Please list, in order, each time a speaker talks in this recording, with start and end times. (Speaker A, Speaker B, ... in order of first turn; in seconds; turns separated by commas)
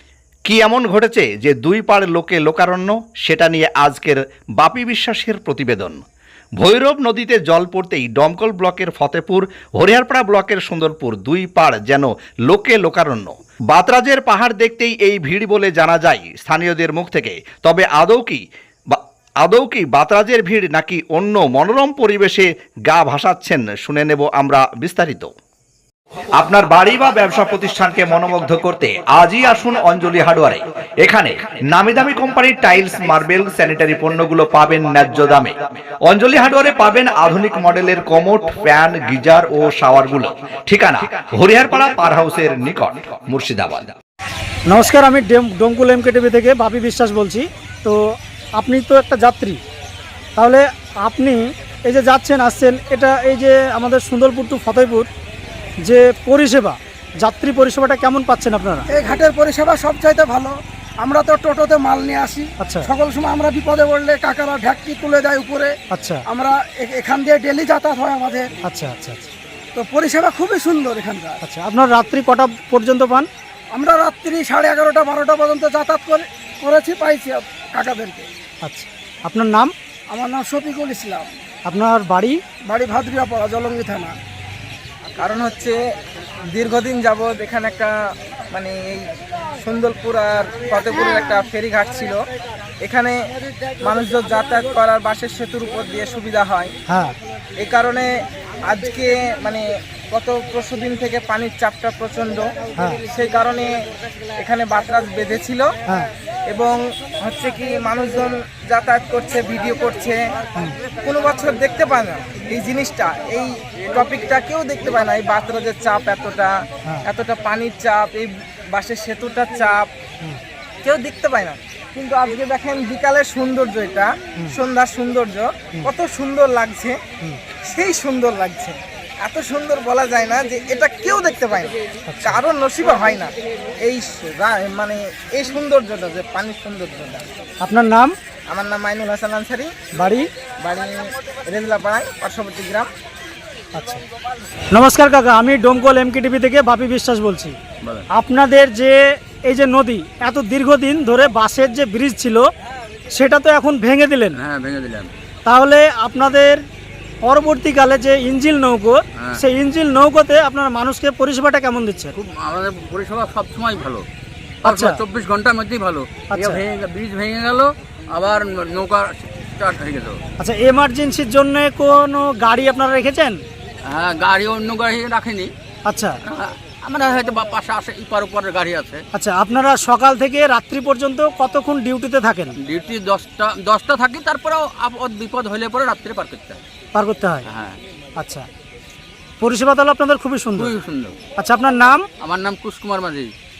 Speaker A: 0.5-6.0, Speaker A: 6.6-25.3, Speaker A: 26.3-44.0, Speaker B: 44.7-48.0, Speaker B: 48.5-49.6, Speaker B: 50.4-55.1, Speaker B: 55.8-58.8, Speaker C: 58.9-65.7, Speaker C: 66.2-68.5, Speaker B: 68.7-69.2, Speaker C: 69.7-71.4, Speaker B: 71.5-73.2, Speaker C: 73.7-78.3, Speaker B: 78.7-79.7, Speaker C: 80.1-81.3, Speaker B: 81.7-82.3, Speaker C: 82.6-84.1, Speaker D: 85.2-85.8, Speaker D: 86.5-87.9, Speaker D: 88.5-89.0, Speaker D: 89.6-92.1, Speaker D: 92.8-93.2, Speaker D: 93.8-96.7, Speaker B: 96.9-97.2, Speaker D: 97.6-98.1, Speaker D: 98.7-102.5, Speaker D: 103.1-103.7, Speaker D: 104.4-105.7, Speaker D: 106.5-110.2, Speaker D: 111.0-119.9, Speaker D: 120.8-127.0, Speaker D: 127.6-137.3, Speaker B: 137.6-138.1, Speaker D: 138.5-139.7, Speaker B: 139.9-140.3, Speaker D: 140.6-142.9, Speaker B: 143.7-144.0, Speaker B: 144.7-147.6, Speaker E: 147.8-148.1, Speaker B: 148.1-152.4, Speaker B: 153.1-154.4, Speaker E: 154.3-155.1, Speaker B: 155.4-156.6, Speaker B: 157.2-162.1, Speaker E: 162.1-164.1, Speaker E: 164.6-170.2, Speaker B: 164.7-165.0, Speaker B: 170.4-173.4, Speaker E: 173.8-175.5, Speaker B: 175.8-176.2, Speaker E: 176.2-179.0, Speaker B: 179.1-182.6, Speaker E: 182.6-186.6, Speaker B: 186.9-187.5, Speaker E: 187.5-187.8, Speaker B: 188.2-188.5, Speaker B: 189.4-190.7, Speaker E: 190.6-191.2, Speaker B: 191.4-192.1, Speaker E: 192.2-193.3